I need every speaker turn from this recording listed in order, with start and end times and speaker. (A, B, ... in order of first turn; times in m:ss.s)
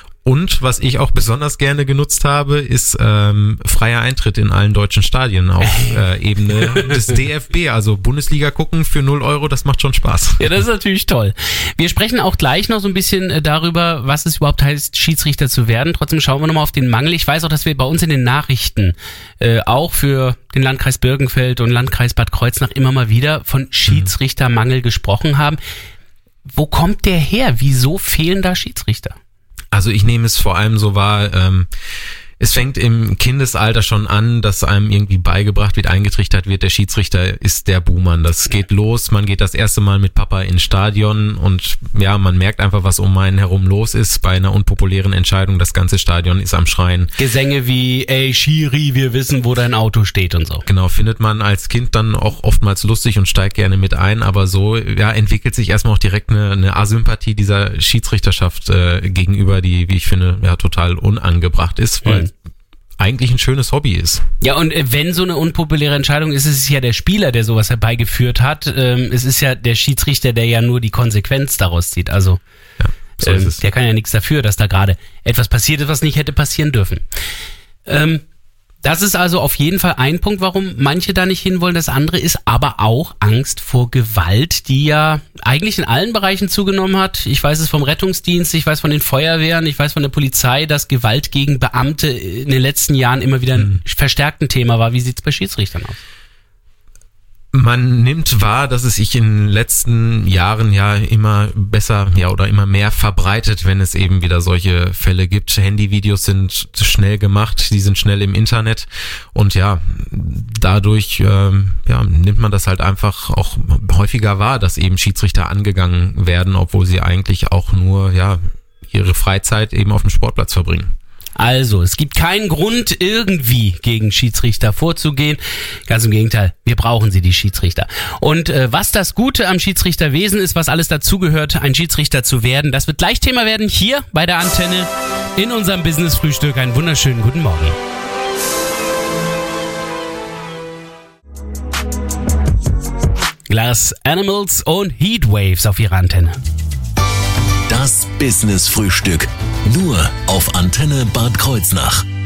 0:00.2-0:10.4 A
0:05.6-0:07.0 B
0:10.4-0:25.6 B
0:26.5-0:29.2 B
0:29.7-0:31.7 A
0:32.4-0:47.1 A
0:47.2-0:50.6 B
0:50.7-1:02.3 A
1:03.0-1:04.2 A
1:04.4-1:12.4 B
1:12.8-1:13.6 A
1:13.2-1:17.0 B
1:17.9-1:18.2 B
1:18.8-1:36.0 B
1:37.5-2:00.9 A
2:01.4-2:17.8 B
2:23.5-2:26.4 B
2:27.7-2:32.0 C